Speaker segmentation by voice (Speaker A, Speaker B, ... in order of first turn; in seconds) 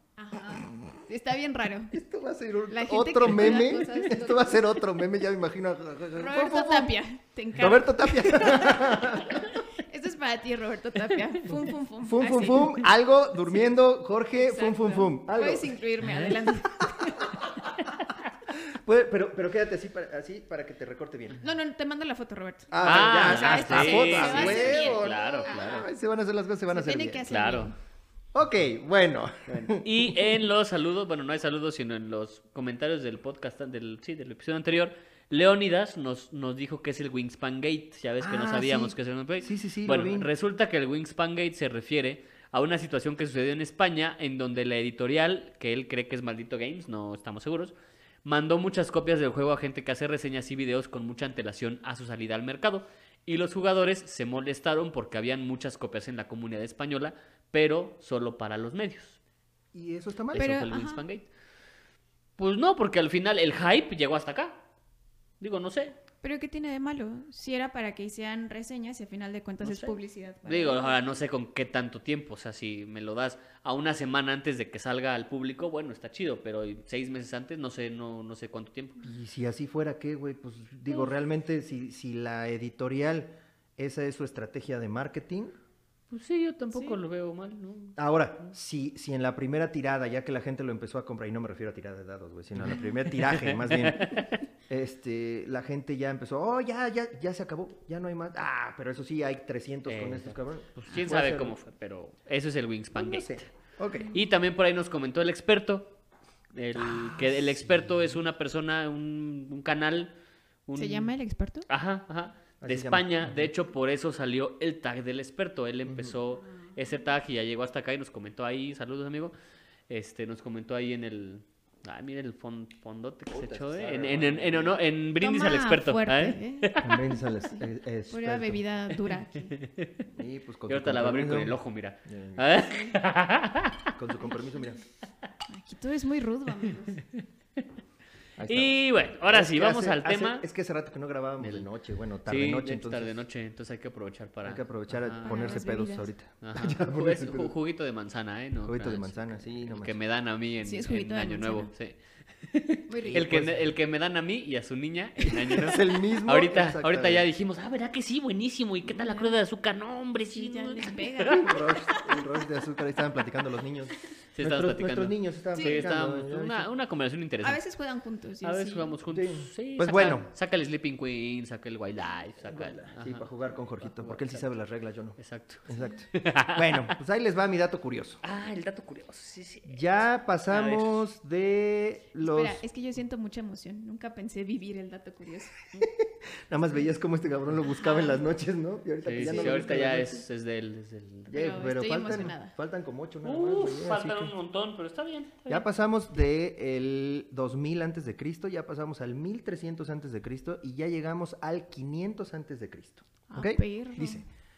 Speaker A: 0.2-1.9, 2.7-4.6, 6.2-12.8, 14.4-17.6, 21.4-25.9, 26.7-27.8, 60.3-61.0, 66.2-71.0, 86.7-87.0, 110.8-111.7, 125.2-126.7, 127.5-129.5, 132.7-132.9, 135.5-137.0, 145.2-146.1, 150.6-151.7, 152.9-153.3, 158.9-159.3, 160.3-162.2, 165.6-165.9, 167.4-168.9, 182.2-185.9, 187.7-188.2, 189.3-189.9, 191.3-192.5, 203.3-204.2
Speaker B: 1.9-7.0, 7.6-9.6, 11.5-15.7, 18.6-21.4, 22.7-27.3, 28.3-30.4, 38.2-40.3, 59.7-60.7, 79.0-85.5, 88.0-101.6, 102.9-104.1, 106.8-107.7, 112.6-113.5, 115.9-116.2, 123.3-124.8, 126.8-128.6, 130.1-132.5, 134.0-134.8, 138.4-143.2, 144.4-147.5, 148.6-150.0, 153.1-153.7, 155.2-157.3, 161.3-166.7, 169.1-170.3, 172.4-178.2, 179.7-182.6, 185.8-190.2, 191.3-194.3, 195.5-204.2
Speaker C: 22.8-25.6, 27.3-27.7, 29.5-59.2, 60.3-61.3, 62.4-64.6, 65.4-66.0, 69.6-79.0, 86.1-88.0, 92.5-94.3, 99.9-103.4, 104.1-106.0, 106.5-110.1, 110.7-111.1, 111.7-119.3, 119.9-127.1, 129.5-129.9, 130.7-133.9, 138.5-140.4, 141.4-141.7, 142.3-145.6, 146.4-161.5, 164.3-167.6, 168.4-173.3, 173.8-174.5, 175.2-176.9, 178.2-179.8, 180.5-181.0, 189.1-191.5, 193.2-195.7